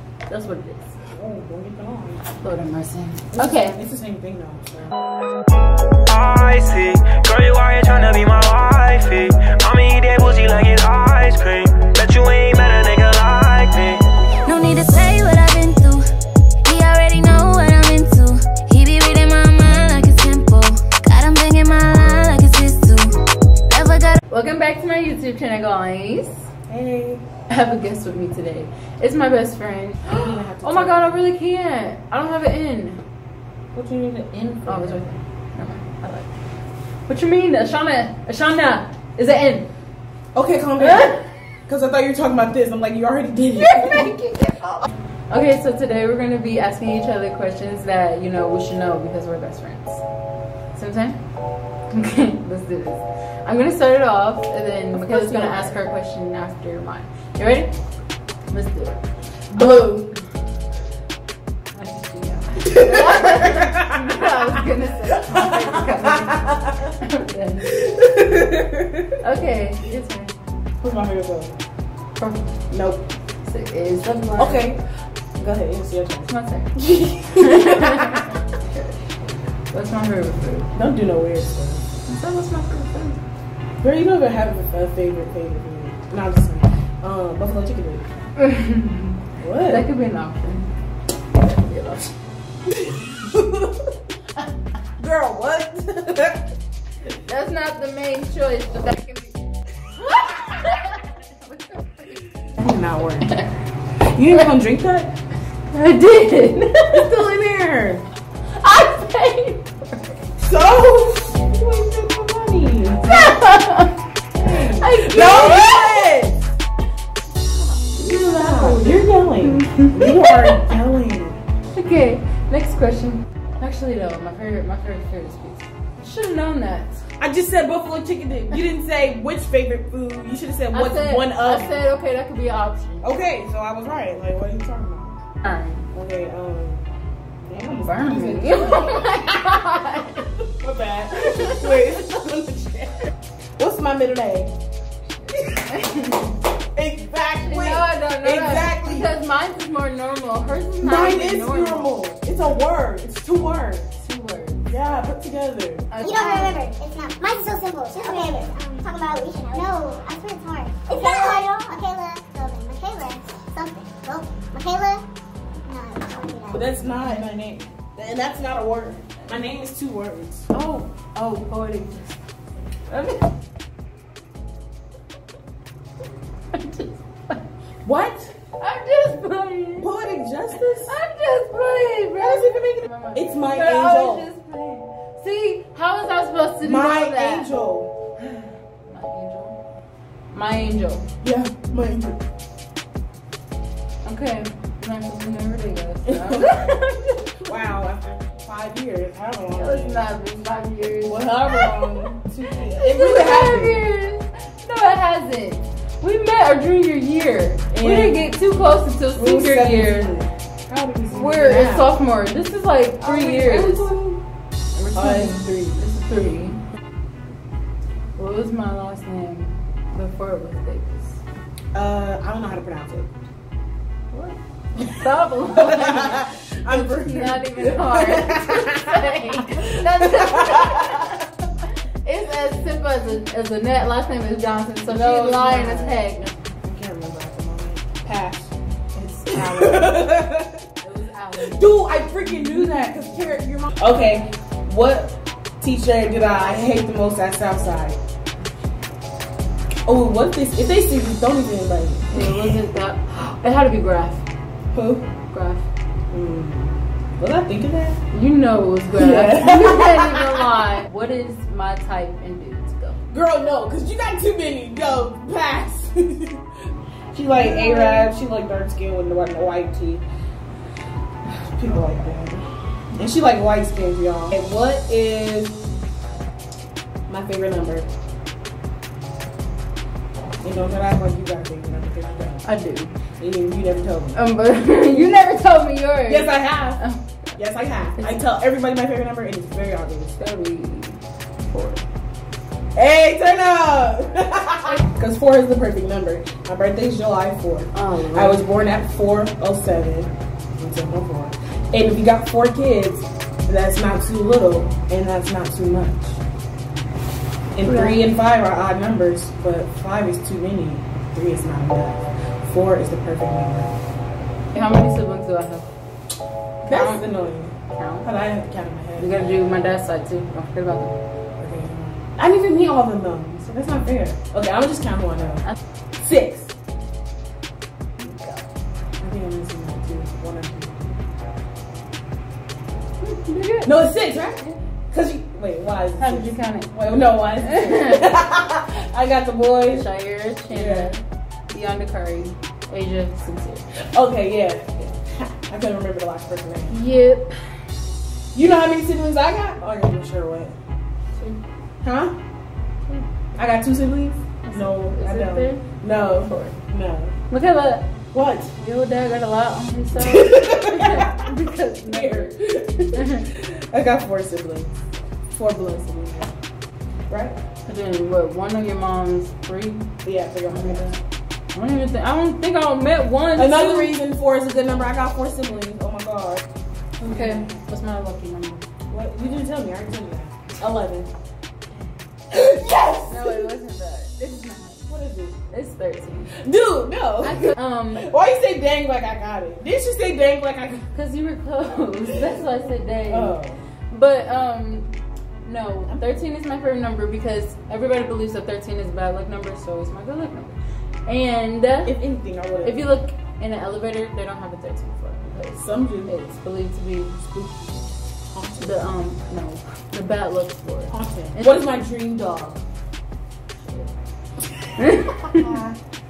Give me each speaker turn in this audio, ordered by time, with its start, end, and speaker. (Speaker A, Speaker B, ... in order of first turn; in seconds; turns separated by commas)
Speaker A: 0.3-1.0, Speaker B: 1.1-2.3, Speaker A: 2.4-3.8, Speaker B: 3.3-4.9, Speaker C: 6.1-14.0, Speaker D: 14.4-16.0, Speaker D: 16.6-23.1, Speaker D: 23.7-24.2, Speaker A: 24.3-26.5, Speaker B: 26.7-27.2, Speaker A: 27.5-33.0, Speaker B: 30.1-31.3, Speaker B: 33.7-35.0, Speaker A: 34.7-36.3, Speaker A: 37.1-39.7, Speaker B: 40.3-44.1, Speaker A: 43.6-50.0, Speaker A: 50.7-51.2, Speaker A: 51.9-57.7, Speaker B: 54.9-55.8, Speaker A: 58.5-59.0, Speaker B: 59.5-60.1, Speaker A: 59.5-60.2, Speaker A: 61.7-68.0, Speaker B: 62.8-63.7, Speaker B: 65.6-66.6, Speaker B: 67.7-69.2, Speaker A: 69.2-70.3, Speaker B: 70.8-71.5, Speaker A: 72.2-72.6, Speaker B: 72.7-73.1, Speaker A: 73.4-74.7, Speaker B: 74.4-74.8, Speaker B: 75.3-78.2, Speaker A: 76.3-79.0, Speaker A: 79.7-80.7, Speaker B: 80.7-81.8, Speaker A: 82.1-83.2, Speaker B: 83.8-88.0, Speaker A: 88.4-90.7, Speaker B: 89.4-89.9, Speaker A: 91.3-92.1, Speaker B: 92.7-93.9, Speaker B: 95.0-96.5, Speaker A: 97.1-99.4, Speaker A: 99.9-102.5, Speaker B: 102.6-103.5, Speaker B: 104.0-105.1, Speaker A: 105.7-107.1, Speaker B: 106.9-108.0, Speaker A: 108.5-110.2, Speaker B: 110.4-113.5, Speaker A: 113.1-113.9, Speaker B: 114.4-116.5, Speaker A: 114.8-116.0, Speaker A: 117.9-120.6, Speaker B: 118.0-121.4, Speaker A: 121.7-127.0, Speaker B: 127.2-131.8, Speaker A: 130.7-133.1, Speaker B: 133.0-135.2, Speaker A: 135.4-135.8, Speaker B: 135.9-136.8, Speaker B: 137.4-139.2, Speaker A: 137.7-140.3, Speaker B: 140.5-142.9, Speaker A: 141.3-141.7, Speaker B: 143.6-144.5, Speaker A: 145.2-146.4, Speaker B: 146.7-149.1, Speaker A: 147.4-151.9, Speaker B: 150.8-153.9, Speaker A: 154.0-154.7, Speaker B: 154.7-155.9, Speaker A: 155.9-156.6, Speaker E: 156.0-165.0, Speaker E: 165.7-166.7, Speaker B: 166.5-170.5, Speaker A: 170.5-172.2, Speaker B: 172.9-173.2, Speaker A: 176.5-177.4, Speaker B: 177.8-178.3, Speaker A: 178.6-179.9, Speaker B: 179.8-180.9, Speaker A: 180.8-187.5, Speaker B: 182.2-184.3, Speaker B: 186.6-187.9, Speaker A: 188.2-189.6, Speaker A: 190.3-191.1, Speaker B: 191.2-192.2, Speaker A: 194.0-197.5, Speaker B: 196.1-196.7, Speaker B: 197.4-200.1, Speaker A: 199.6-201.8, Speaker B: 201.0-203.9, Speaker A: 202.5-210.1, Speaker B: 207.7-208.3, Speaker B: 209.1-212.0, Speaker A: 211.1-213.9, Speaker B: 213.0-214.2, Speaker A: 214.7-216.6, Speaker B: 214.9-215.5, Speaker A: 218.2-221.2, Speaker B: 221.7-223.1, Speaker A: 224.1-231.3, Speaker B: 225.5-228.9, Speaker B: 229.6-230.6, Speaker A: 232.0-236.3, Speaker B: 234.8-236.1, Speaker B: 236.6-238.5, Speaker A: 239.0-240.0, Speaker B: 239.2-240.6, Speaker A: 240.8-241.7, Speaker B: 241.4-248.0, Speaker A: 242.3-243.0, Speaker B: 249.9-252.6, Speaker A: 252.1-254.2, Speaker B: 254.7-255.1, Speaker A: 255.3-255.7, Speaker B: 256.1-258.0, Speaker A: 258.1-263.0, Speaker B: 258.9-260.4, Speaker B: 263.1-266.5, Speaker B: 267.1-270.0, Speaker A: 267.3-268.1, Speaker B: 271.2-275.6, Speaker B: 277.1-277.9, Speaker B: 280.4-282.4, Speaker A: 282.4-282.9, Speaker B: 283.2-284.2, Speaker A: 284.1-287.4, Speaker B: 286.1-286.8, Speaker B: 287.4-290.1, Speaker A: 290.1-291.8, Speaker B: 292.8-306.2, Speaker A: 297.7-298.4, Speaker B: 307.6-313.8, Speaker A: 307.6-308.0, Speaker A: 314.5-315.7, Speaker A: 316.6-317.1, Speaker B: 316.7-319.2, Speaker A: 317.7-318.1, Speaker A: 319.0-320.9, Speaker B: 321.4-325.4, Speaker B: 326.0-326.5, Speaker A: 328.0-328.4, Speaker B: 329.0-331.0, Speaker A: 333.0-333.8, Speaker B: 333.6-339.9, Speaker A: 336.0-338.1, Speaker A: 339.7-341.0, Speaker B: 340.5-341.0, Speaker A: 341.5-343.6, Speaker B: 343.8-346.8, Speaker A: 346.7-347.3, Speaker B: 348.3-350.5, Speaker B: 351.8-352.1, Speaker B: 353.4-357.1, Speaker A: 354.4-356.5, Speaker A: 357.3-357.9, Speaker B: 358.1-358.5, Speaker A: 358.6-362.4, Speaker B: 359.9-361.3, Speaker B: 361.9-364.7, Speaker A: 362.9-363.3, Speaker B: 365.3-366.3, Speaker B: 367.1-367.4, Speaker A: 367.6-369.9, Speaker B: 370.0-370.9, Speaker A: 370.5-371.0, Speaker A: 371.5-373.9, Speaker B: 373.4-376.4, Speaker B: 377.0-377.5, Speaker A: 377.0-378.6, Speaker B: 378.9-381.1, Speaker B: 382.3-383.5, Speaker A: 383.1-384.9, Speaker B: 384.9-385.4, Speaker A: 385.5-386.4, Speaker B: 386.3-390.9, Speaker A: 387.2-388.1, Speaker A: 390.9-393.4, Speaker B: 393.1-393.6, Speaker A: 393.9-394.9, Speaker A: 395.4-402.0, Speaker B: 401.8-402.8, Speaker A: 402.6-407.8, Speaker B: 405.6-406.1, Speaker B: 408.3-408.8, Speaker A: 408.6-411.6, Speaker B: 410.9-412.6, Speaker A: 414.8-415.6, Speaker B: 415.1-415.8